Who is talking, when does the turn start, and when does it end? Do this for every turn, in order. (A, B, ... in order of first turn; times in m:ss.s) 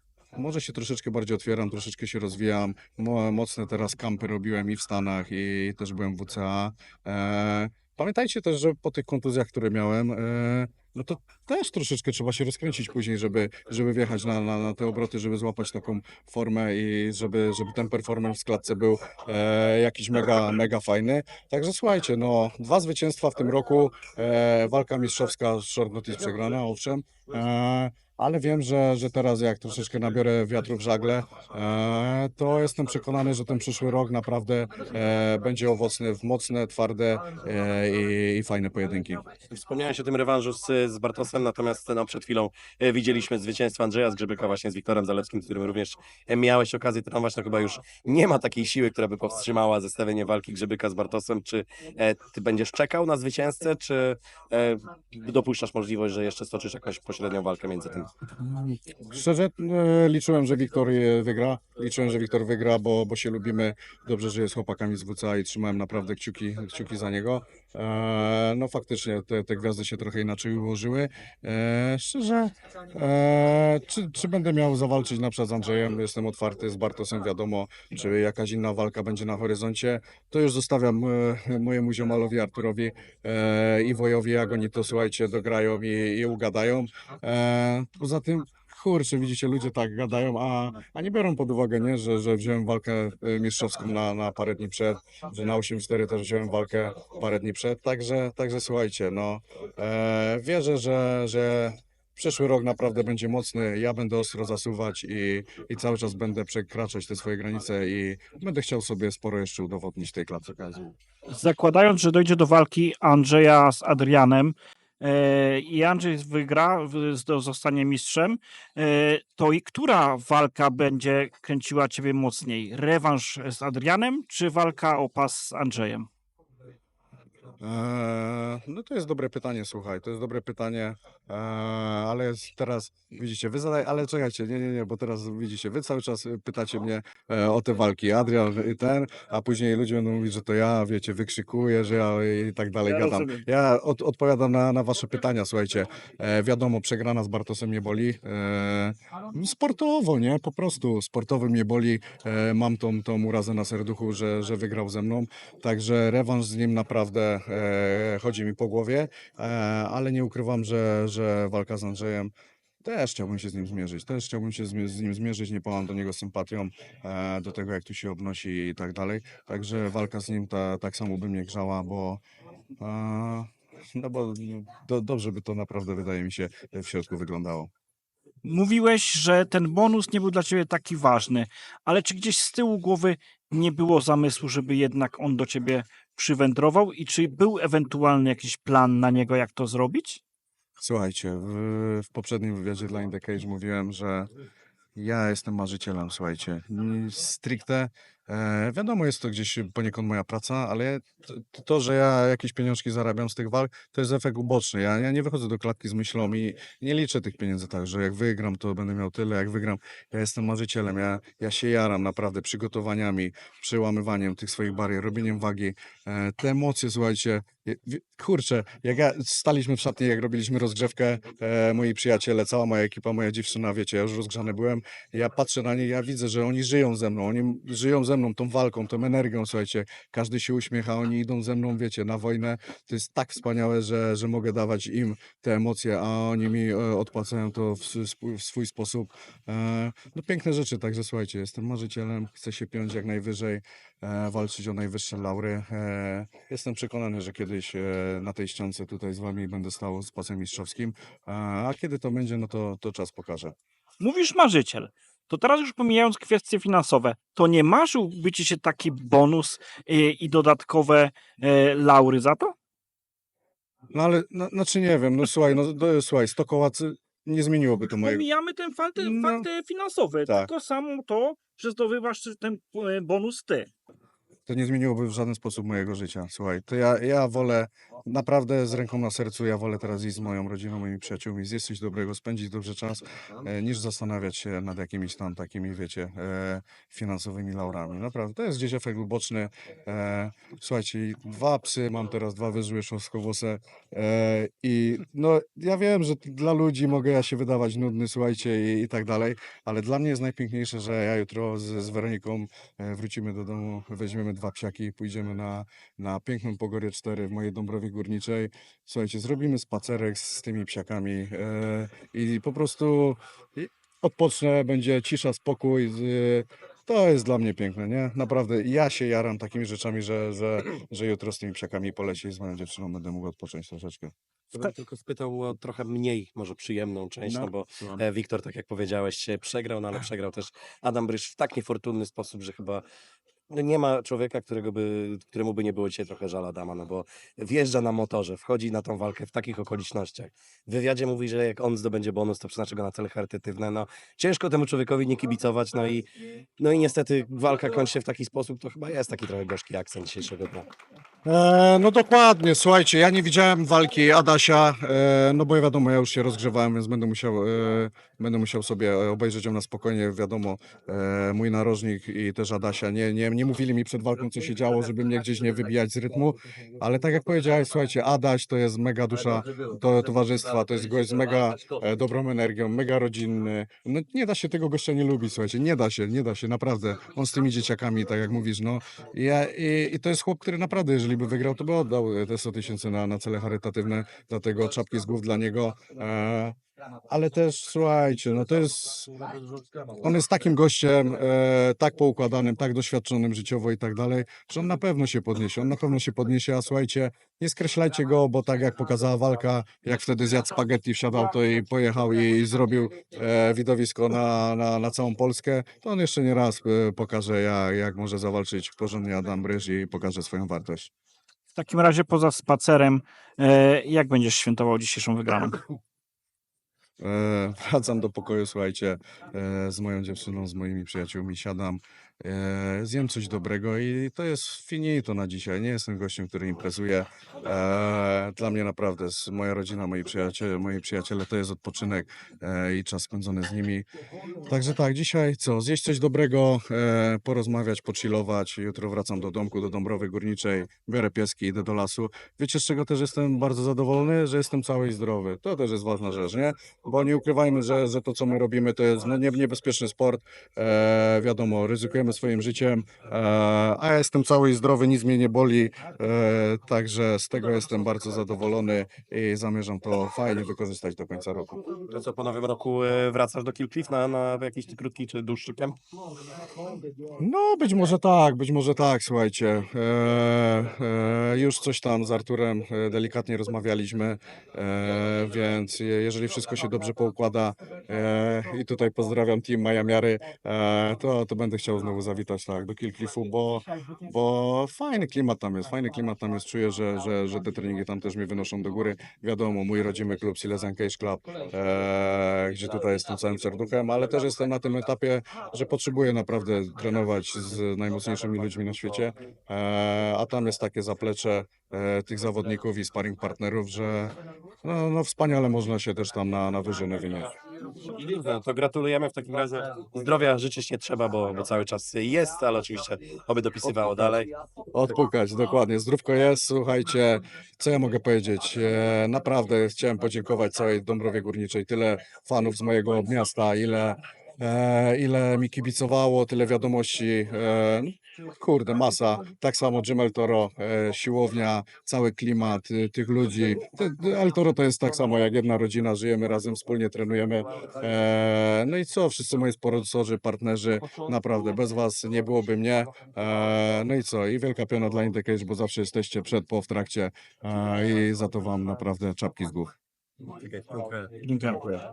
0:00.3-0:39.2 A
0:39.5-0:58.1 B
0:58.4-1:50.9 A
1:51.3-2:06.1 C
2:07.6-2:42.3 A
2:42.8-2:52.2 A
2:52.8-2:57.7 A
2:58.4-3:10.2 C
3:10.8-3:14.3 A
3:14.9-4:13.5 A
4:14.0-4:22.5 C
4:23.9-4:28.2 A
4:28.0-4:33.7 C
4:29.0-4:29.5 A
4:34.5-5:24.1 A
5:24.5-5:32.8 B
5:27.2-5:28.0 A
5:33.5-5:46.1 B
5:46.6-5:50.7 B
5:51.2-6:26.5 A
6:27.1-6:29.1 A
6:30.0-6:50.9 A
6:51.5-6:55.6 C
6:57.0-7:13.8 A
7:14.4-7:41.7 A
7:41.9-7:45.8 B
7:47.2-8:27.3 A
8:27.9-8:34.3 B
8:34.7-9:09.7 A
9:10.4-9:11.1 B
9:11.2-9:11.8 C